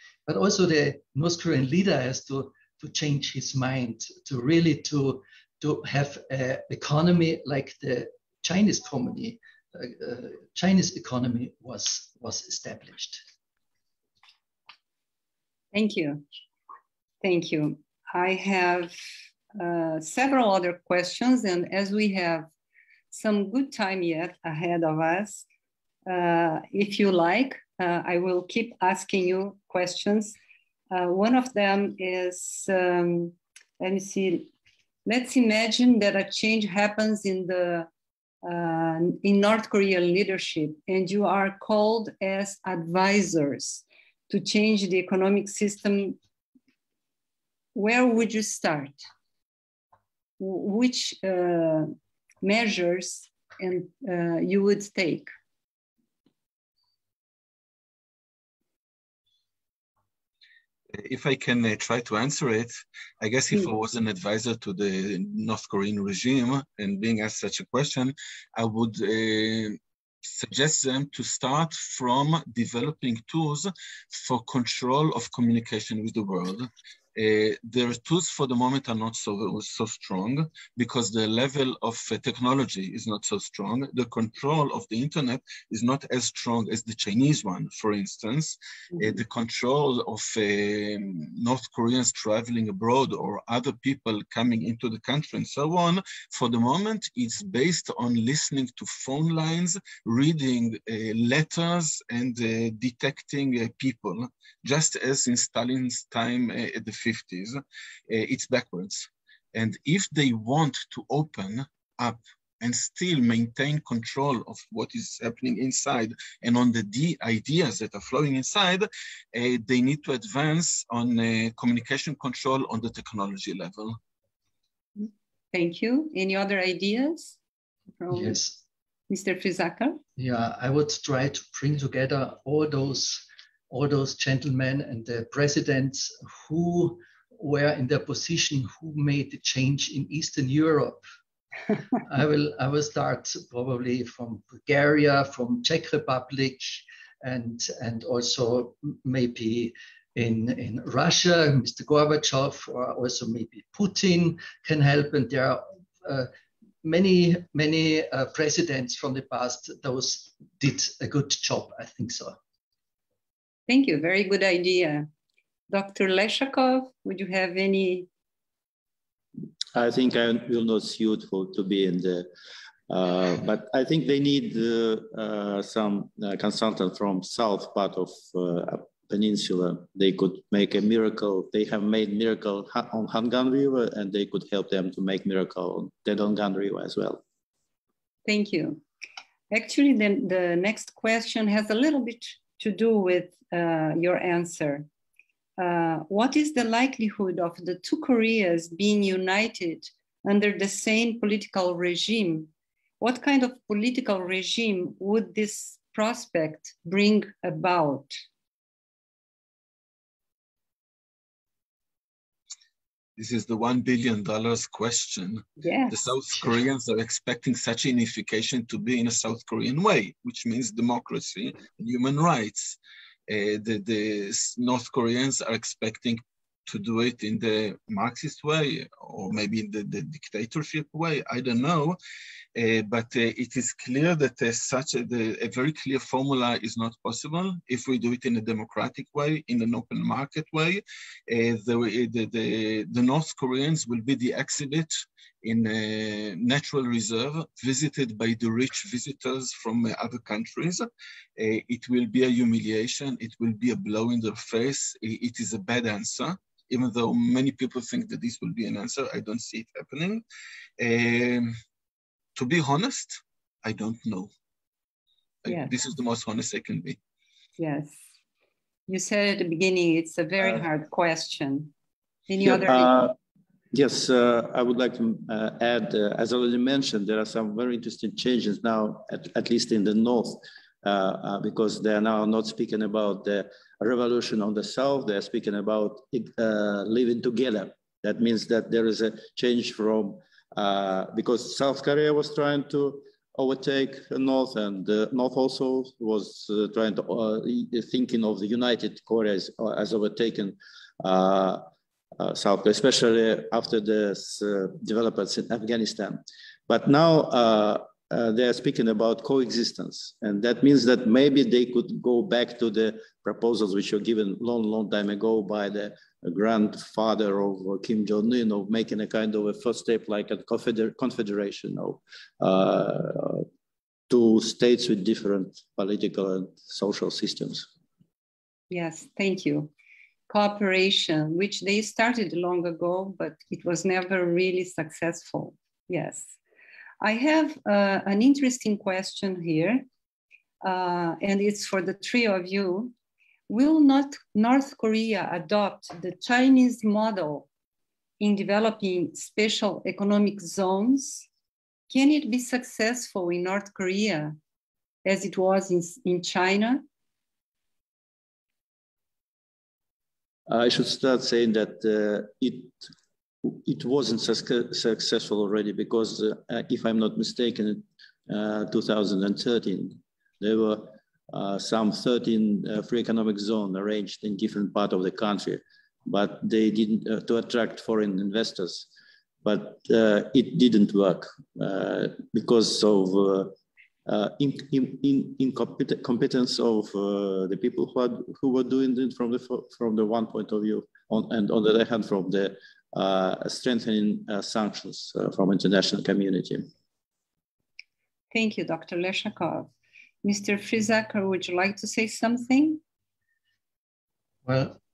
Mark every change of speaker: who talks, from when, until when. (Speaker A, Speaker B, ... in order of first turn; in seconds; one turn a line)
Speaker A: 0.3-13.2
Speaker B: 15.7-16.2
Speaker B: 17.2-18.9
Speaker B: 19.6-22.5
Speaker B: 23.1-25.4
Speaker B: 26.1-30.4
Speaker B: 30.9-34.5
Speaker B: 35.0-37.9
Speaker B: 38.4-46.2
Speaker B: 47.7-49.0
Speaker B: 50.4-51.9
Speaker B: 52.4-55.3
Speaker C: 61.0-124.0
Speaker B: 125.0-127.4
Speaker B: 128.0-128.4
Speaker A: 128.1-128.6
Speaker B: 129.1-130.0
Speaker A: 130.2-141.0
Speaker A: 142.1-156.3
Speaker A: 156.8-162.3
Speaker B: 163.7-165.1
Speaker B: 165.7-168.1
Speaker D: 169.7-172.3
Speaker D: 172.9-187.2
Speaker B: 188.2-188.8
Speaker B: 189.5-194.9
Speaker B: 195.6-202.5
Speaker B: 203.0-208.1
Speaker C: 213.2-232.0
Speaker B: 215.6-215.9
Speaker C: 232.5-250.9
Speaker C: 251.4-260.2
Speaker C: 260.8-261.5
Speaker C: 262.3-264.3
Speaker C: 265.4-267.0
Speaker B: 265.4-265.7
Speaker B: 267.6-268.0
Speaker B: 268.9-271.7
Speaker B: 272.3-273.0
Speaker D: 272.4-273.1
Speaker D: 273.7-301.6
Speaker D: 302.2-323.4
Speaker D: 324.1-327.7
Speaker B: 328.7-329.7
Speaker B: 330.3-336.3
Speaker B: 337.0-339.9
Speaker B: 340.6-342.9
Speaker B: 343.5-347.5
Speaker B: 348.2-351.3
Speaker B: 351.9-354.4
Speaker B: 355.0-356.8
Speaker D: 360.5-362.8
Speaker D: 363.4-378.9
Speaker D: 379.4-383.5
Speaker D: 384.1-396.7
Speaker B: 398.3-399.7
Speaker B: 400.2-402.8
Speaker A: 404.4-404.8